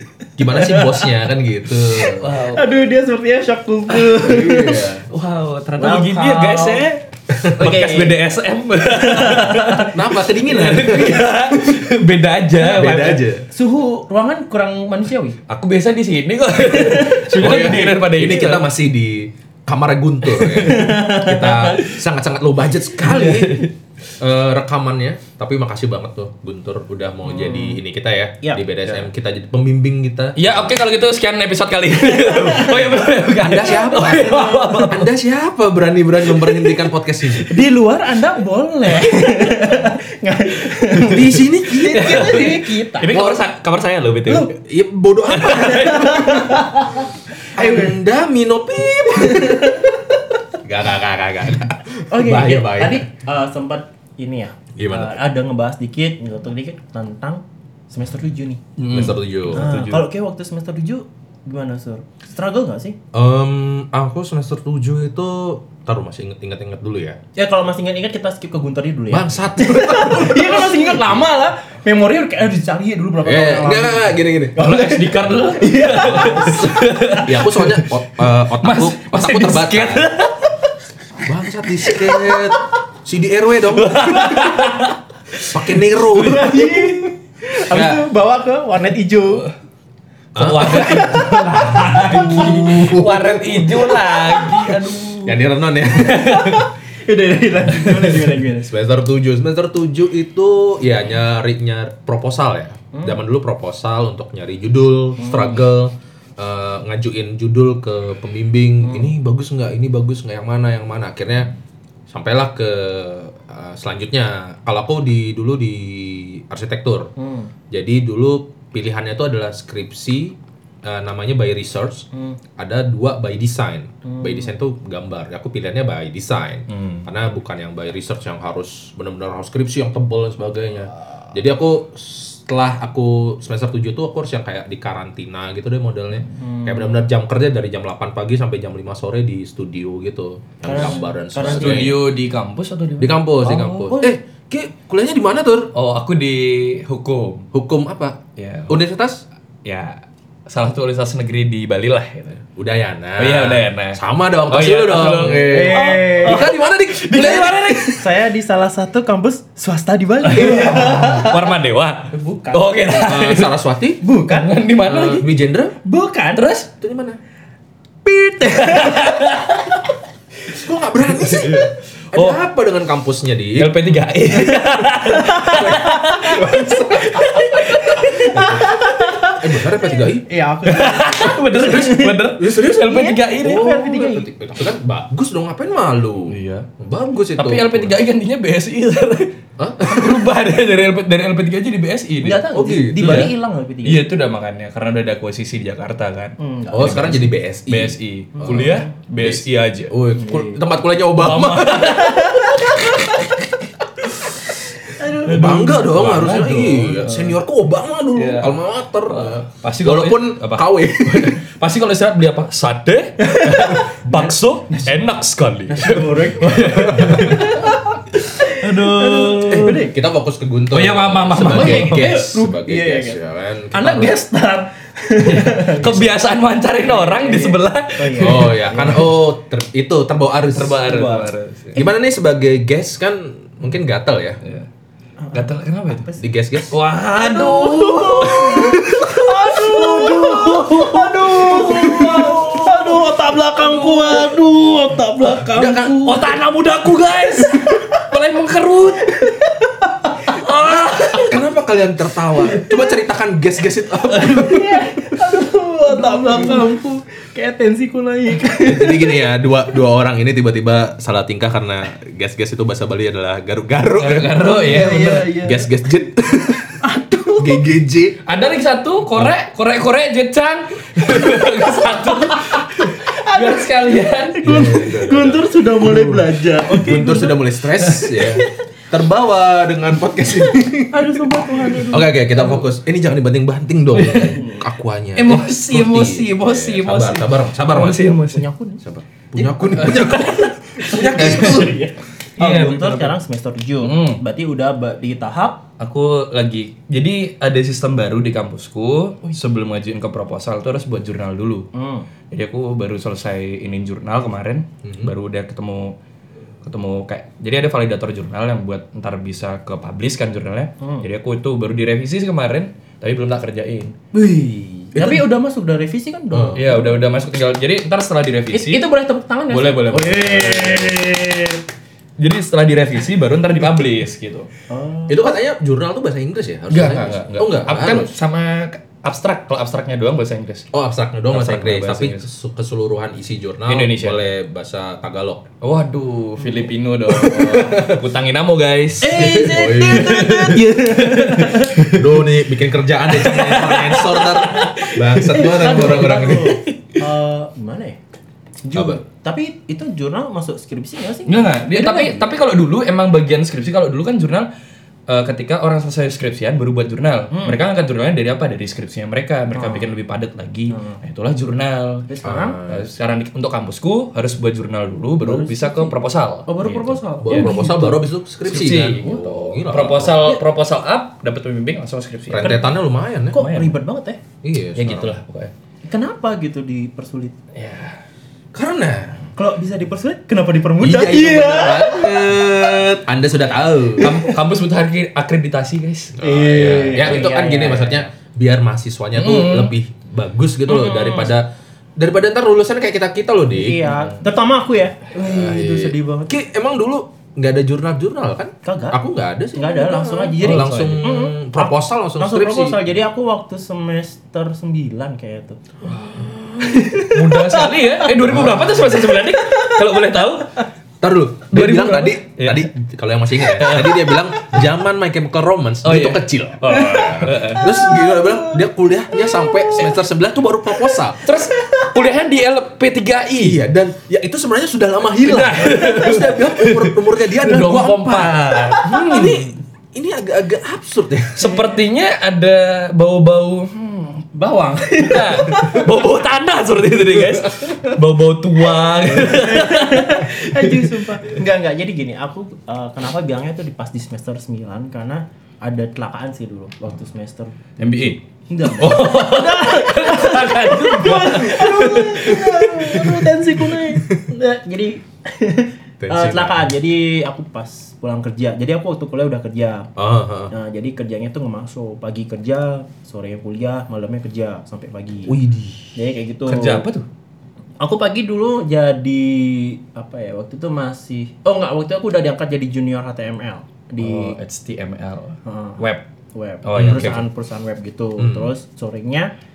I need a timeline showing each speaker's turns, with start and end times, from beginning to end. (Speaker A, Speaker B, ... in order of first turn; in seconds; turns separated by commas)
Speaker A: 0.3-2.2, Speaker B: 0.5-1.2, Speaker B: 2.0-4.9, Speaker C: 2.1-2.7, Speaker A: 4.2-5.0, Speaker C: 5.1-13.2, Speaker B: 5.8-6.9, Speaker A: 7.3-7.6, Speaker B: 7.5-8.2, Speaker B: 8.9-9.9, Speaker A: 9.9-11.8, Speaker A: 12.6-13.4, Speaker B: 12.8-15.4, Speaker C: 15.5-18.6, Speaker B: 16.7-17.9, Speaker A: 17.3-30.7, Speaker B: 20.5-21.8, Speaker C: 23.0-23.7, Speaker B: 27.3-27.8, Speaker C: 30.4-35.1, Speaker B: 32.1-33.1, Speaker A: 33.4-37.5, Speaker B: 33.7-34.9, Speaker B: 37.4-43.1, Speaker A: 40.9-43.4, Speaker C: 41.9-44.5, Speaker B: 44.2-44.5, Speaker A: 44.5-46.7, Speaker C: 45.3-46.7, Speaker B: 45.4-47.9, Speaker A: 47.5-49.9, Speaker B: 49.1-50.0, Speaker A: 50.6-53.0, Speaker B: 52.1-58.6, Speaker A: 54.8-55.2, Speaker C: 58.8-60.1, Speaker A: 58.9-59.6, Speaker B: 59.5-63.0, Speaker A: 63.1-67.2, Speaker B: 67.3-77.2, Speaker A: 69.1-71.0, Speaker A: 73.2-74.7, Speaker C: 74.5-80.5, Speaker A: 76.0-76.6, Speaker A: 77.2-80.1, Speaker A: 81.2-84.5, Speaker C: 83.7-87.1, Speaker B: 84.1-84.8, Speaker A: 85.4-86.6, Speaker B: 86.1-89.5, Speaker A: 87.7-88.0, Speaker A: 90.3-93.6, Speaker C: 90.3-95.4, Speaker B: 90.6-92.9, Speaker B: 93.6-94.8, Speaker A: 95.2-96.3, Speaker C: 95.9-96.7, Speaker B: 96.0-98.7, Speaker C: 97.7-98.4, Speaker A: 98.6-111.5, Speaker B: 102.9-103.2, Speaker B: 105.2-105.6, Speaker B: 108.8-109.1, Speaker A: 112.1-117.1, Speaker B: 117.2-117.5, Speaker A: 117.7-142.0, Speaker B: 122.1-122.4, Speaker B: 124.0-124.5, Speaker C: 126.7-127.1, Speaker B: 136.3-137.0, Speaker B: 140.6-141.9, Speaker C: 141.4-143.9, Speaker A: 143.0-145.7, Speaker B: 143.6-144.2, Speaker C: 145.7-147.5, Speaker A: 147.5-149.2, Speaker C: 148.4-148.8, Speaker C: 149.6-152.4, Speaker A: 152.6-157.6, Speaker C: 153.2-158.2, Speaker B: 155.4-156.5, Speaker B: 157.2-161.5, Speaker C: 160.2-163.5, Speaker B: 162.1-162.8, Speaker A: 162.9-164.0, Speaker B: 164.0-164.6, Speaker C: 164.2-165.3, Speaker A: 164.8-165.8, Speaker B: 165.8-166.5, Speaker C: 166.3-166.7, Speaker A: 166.8-167.2, Speaker B: 168.0-169.6, Speaker C: 168.5-169.8, Speaker A: 170.5-173.8, Speaker C: 171.1-172.4, Speaker C: 173.6-178.7, Speaker B: 174.9-184.3, Speaker A: 175.6-175.8, Speaker A: 176.4-176.7, Speaker A: 178.3-180.3, Speaker C: 180.6-183.8, Speaker A: 182.4-182.8, Speaker A: 183.4-187.9, Speaker C: 186.3-186.7, Speaker C: 187.3-199.9, Speaker A: 189.6-190.2, Speaker B: 192.2-194.1, Speaker A: 192.5-193.3, Speaker B: 196.4-197.2, Speaker A: 196.7-202.0, Speaker B: 198.3-198.9, Speaker B: 200.1-200.6, Speaker C: 201.1-203.3, Speaker B: 201.8-203.0, Speaker B: 205.0-205.9, Speaker A: 205.2-211.4, Speaker C: 205.2-207.4, Speaker C: 208.1-219.9, Speaker B: 213.2-215.0, Speaker B: 215.7-219.9, Speaker A: 216.6-217.5, Speaker A: 219.6-224.2, Speaker C: 220.7-222.3, Speaker B: 221.4-223.2, Speaker B: 223.7-226.1, Speaker C: 225.2-228.9, Speaker B: 226.8-229.1, Speaker A: 228.2-231.0, Speaker C: 230.5-231.8, Speaker B: 230.8-231.3, Speaker A: 231.7-234.4, Speaker C: 234.4-234.7, Speaker B: 235.2-236.2, Speaker C: 235.3-236.1, Speaker A: 236.2-236.8, Speaker C: 236.7-244.4, Speaker B: 237.1-246.4, Speaker A: 245.5-246.3, Speaker C: 246.0-249.3, Speaker B: 247.2-248.1, Speaker B: 249.0-251.3, Speaker C: 250.2-251.3, Speaker A: 251.1-254.9, Speaker B: 254.1-259.2, Speaker C: 255.9-256.6, Speaker A: 258.6-264.6, Speaker C: 264.0-265.4, Speaker B: 264.4-265.7, Speaker A: 265.4-268.2, Speaker B: 266.8-267.7, Speaker C: 268.2-274.8, Speaker B: 271.4-277.5, Speaker A: 274.4-288.1, Speaker C: 277.8-278.4, Speaker B: 280.9-282.6, Speaker C: 283.9-284.5, Speaker B: 284.3-284.6, Speaker C: 285.1-288.4, Speaker B: 288.1-288.8, Speaker A: 288.8-291.8, Speaker C: 289.4-291.8, Speaker B: 289.8-295.6, Speaker C: 292.4-293.1, Speaker C: 293.8-294.2, Speaker C: 295.8-301.7, Speaker B: 301.7-302.1, Speaker C: 302.3-305.9, Speaker A: 304.8-305.1, Speaker C: 306.6-313.9, Speaker B: 310.8-311.1, Speaker B: 314.1-317.0, Speaker A: 314.9-315.2, Speaker A: 316.3-316.6, Speaker C: 316.5-318.9, Speaker B: 318.5-321.6, Speaker C: 319.5-321.2, Speaker C: 322.2-324.5, Speaker B: 324.7-325.4, Speaker A: 325.1-328.1, Speaker C: 326.7-330.7, Speaker A: 330.7-335.4, Speaker C: 331.3-332.3, Speaker C: 333.6-334.2, Speaker C: 335.6-341.8, Speaker A: 337.1-338.0, Speaker B: 339.0-342.1, Speaker A: 339.1-340.6, Speaker A: 341.6-346.6, Speaker C: 343.1-346.4, Speaker B: 345.2-348.0, Speaker B: 348.6-352.2, Speaker A: 348.7-349.0, Speaker C: 351.2-354.5, Speaker C: 355.1-362.1, Speaker B: 357.3-357.6, Speaker B: 359.5-359.9, Speaker B: 360.7-361.0, Speaker B: 362.1-362.6, Speaker A: 362.2-362.9, Speaker C: 362.7-367.6, Speaker B: 365.2-368.0, Speaker A: 367.2-370.4, Speaker C: 368.4-372.7, Speaker A: 372.3-373.4, Speaker B: 373.3-374.2, Speaker C: 373.3-373.8, Speaker A: 374.4-375.2, Speaker C: 374.7-375.5, Speaker B: 375.8-377.4, Speaker C: 377.5-378.0, Speaker A: 378.5-379.2, Speaker B: 379.3-382.6, Speaker A: 380.8-384.2, Speaker C: 384.0-387.7, Speaker A: 386.2-393.9, Speaker B: 386.2-388.0, Speaker C: 389.1-389.7, Speaker B: 390.7-391.3, Speaker B: 393.5-396.3, Speaker C: 393.9-394.2, Speaker A: 395.1-402.8, Speaker B: 398.6-399.0, Speaker B: 399.5-409.9, Speaker C: 400.4-401.1, Speaker C: 405.8-410.6, Speaker A: 408.2-408.9, Speaker A: 411.0-421.2, Speaker C: 411.5-412.7, Speaker C: 413.4-414.6, Speaker C: 415.8-417.8, Speaker B: 416.7-419.9, Speaker B: 420.8-422.0, Speaker C: 421.2-423.6, Speaker A: 423.4-431.5, Speaker C: 425.2-429.5, Speaker C: 431.4-441.0, Speaker B: 434.4-435.9, Speaker B: 439.0-447.5, Speaker C: 447.8-453.1, Speaker B: 448.5-459.9, Speaker A: 456.0-456.7, Speaker A: 459.9-460.5, Speaker B: 460.5-465.4, Speaker A: 465.3-465.9, Speaker B: 465.9-466.8, Speaker C: 466.4-467.1, Speaker B: 467.8-474.4, Speaker C: 474.0-476.1, Speaker B: 475.4-479.3, Speaker C: 476.6-477.2, Speaker A: 476.8-477.2, Speaker A: 478.2-478.5